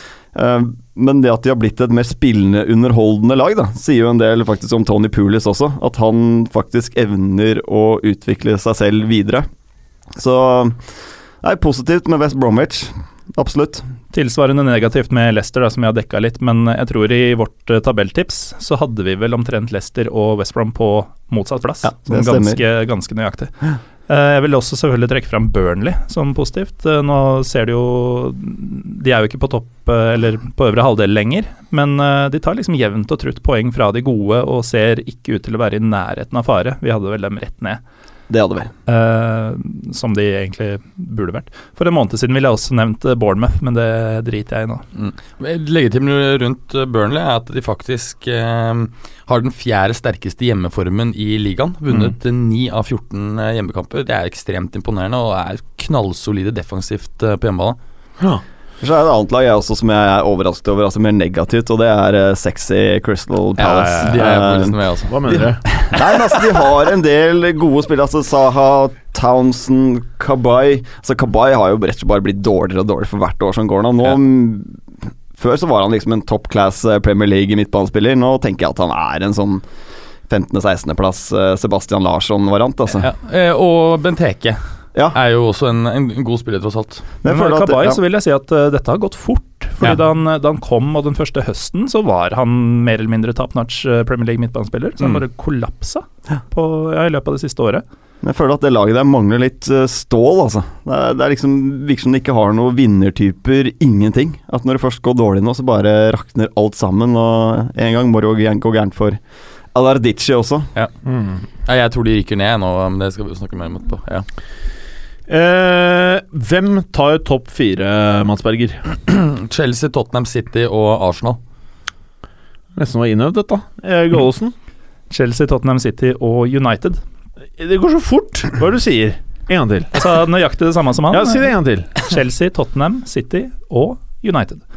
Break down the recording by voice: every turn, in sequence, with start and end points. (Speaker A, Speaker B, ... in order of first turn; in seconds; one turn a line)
Speaker A: 0.3-9.4
Speaker A: 10.2-10.8
Speaker A: 11.4-13.8
Speaker B: 14.1-23.5
Speaker A: 21.8-22.6
Speaker B: 24.1-37.8
Speaker A: 38.3-38.7
Speaker B: 38.9-44.8
Speaker C: 44.9-57.8
Speaker A: 58.8-64.8
Speaker C: 63.6-65.4
Speaker D: 65.1-65.6
Speaker A: 65.3-74.8
Speaker A: 75.3-79.6
Speaker A: 80.3-83.1
Speaker C: 82.9-84.6
Speaker C: 85.1-87.0
Speaker A: 87.2-88.0
Speaker B: 87.2-97.8
Speaker A: 98.2-109.2
Speaker A: 109.7-110.7
Speaker D: 111.0-111.4
Speaker C: 111.7-114.2
Speaker D: 115.3-118.8
Speaker C: 119.0-121.4
Speaker D: 122.8-124.5
Speaker B: 125.1-127.0
Speaker D: 127.6-129.9
Speaker B: 129.9-134.6
Speaker D: 131.1-131.9